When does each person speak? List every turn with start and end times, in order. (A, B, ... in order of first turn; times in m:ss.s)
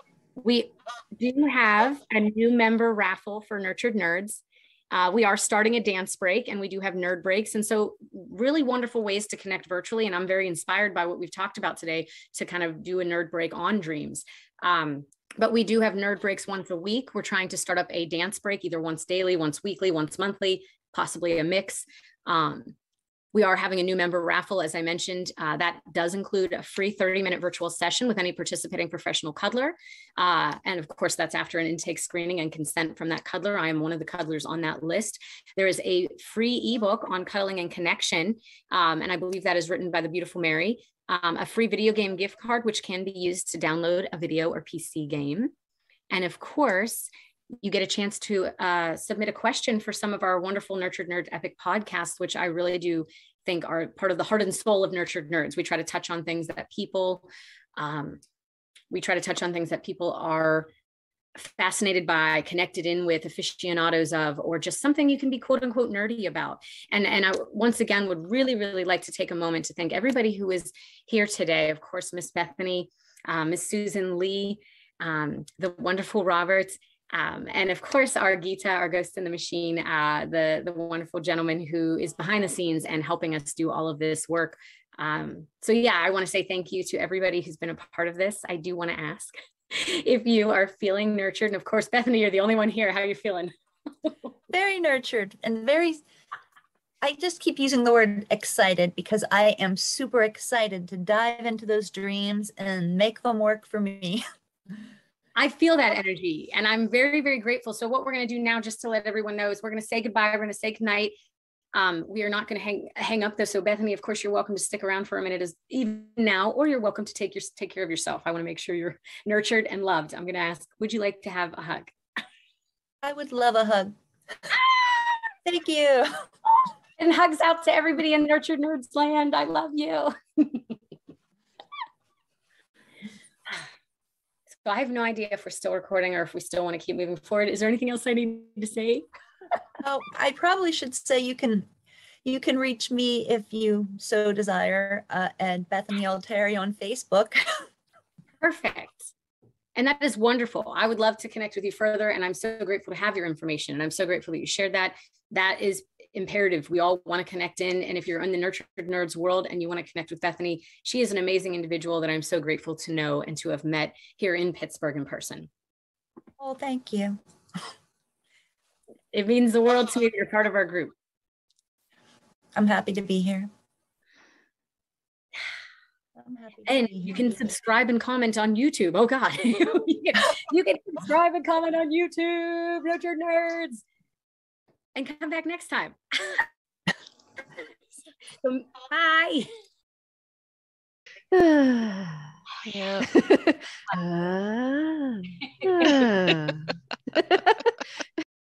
0:00.4-0:22.8 A
0:23.3-0:45.5 A
0:46.1-0:47.1 A
0:47.6-0:58.2 A
0:58.9-1:00.7 A
1:01.4-1:33.5 A
1:34.5-1:36.0 B
1:37.0-1:44.2 B
1:45.4-1:51.1 A
1:51.7-2:01.9 A
2:03.0-2:03.9 B
2:05.4-2:06.1 B
2:07.0-2:10.8 A
2:14.6-2:19.0 A
2:19.8-2:21.7 B
2:22.2-2:27.4 B
2:28.4-2:29.1 A
2:29.8-2:45.5 A
2:46.4-2:47.2 B
2:49.1-2:50.9 A
2:52.6-2:53.5 B
2:56.2-2:57.4 B
2:56.7-3:03.8 A
3:05.0-3:06.5 A
3:08.4-3:09.5 A
3:11.3-3:16.8 C